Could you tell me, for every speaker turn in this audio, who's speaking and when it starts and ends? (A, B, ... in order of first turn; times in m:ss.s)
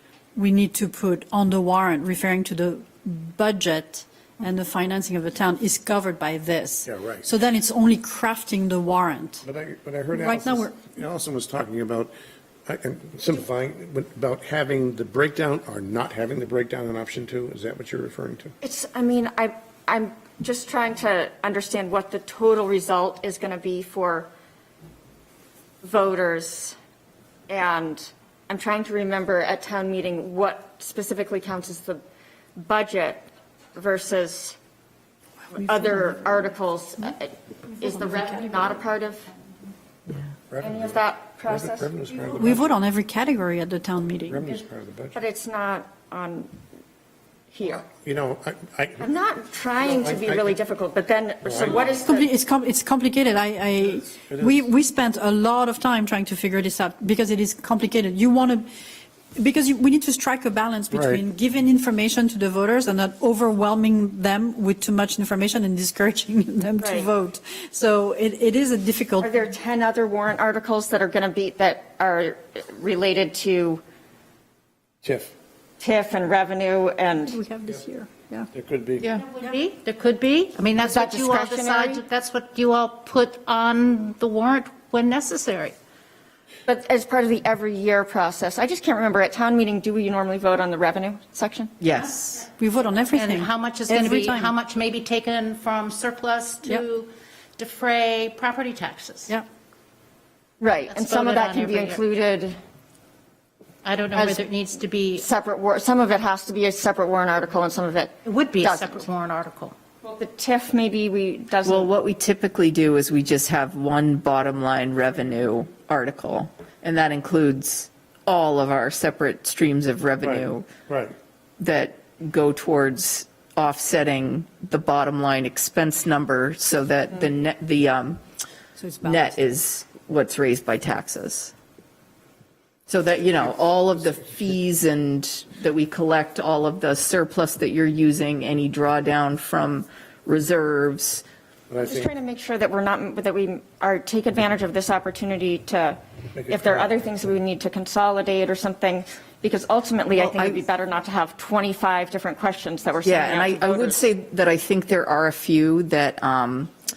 0:00.4-0:09.4 A
0:06.9-0:07.3 B
0:09.4-0:12.1 B
0:10.1-0:10.7 A
0:12.7-0:18.5 B
0:18.6-0:24.3 C
0:25.8-0:26.8 C
0:27.5-0:32.0 C
0:32.6-0:34.6 C
0:35.5-0:39.3 C
0:35.8-0:36.1 A
0:38.1-0:38.8 A
0:40.5-0:42.6 B
0:40.6-0:42.6 C
0:42.6-0:44.5 A
0:44.3-0:45.2 B
0:45.1-0:46.5 C
0:47.5-0:47.8 C
0:47.7-0:49.1 B
0:49.0-0:52.3 C
0:49.8-0:50.6 B
0:51.4-0:52.0 B
0:52.1-0:58.6 A
0:53.9-0:54.7 B
0:59.4-1:09.4 A
1:00.9-1:01.2 B
1:06.8-1:07.1 C
1:09.2-1:13.8 C
1:15.0-1:15.3 B
1:15.8-1:17.4 C
1:17.3-1:18.5 A
1:18.5-1:19.1 B
1:19.0-1:19.3 D
1:19.2-1:25.8 E
1:20.8-1:22.0 C
1:26.7-1:31.8 C
1:31.8-1:32.5 D
1:32.6-1:34.5 A
1:33.1-1:39.3 E
1:40.6-1:42.6 C
1:40.9-1:42.0 E
1:43.8-1:45.3 E
1:45.2-1:49.0 C
1:48.2-1:49.8 E
1:50.0-1:51.9 C
1:51.6-2:00.7 D
2:00.2-2:01.2 B
2:01.6-2:08.2 D
2:08.8-2:09.4 A
2:09.0-2:11.5 D
2:12.9-2:21.2 D
2:21.7-2:22.1 B
2:21.8-2:34.0 C
2:26.3-2:26.9 B
2:30.2-2:30.6 D
2:33.0-2:36.7 D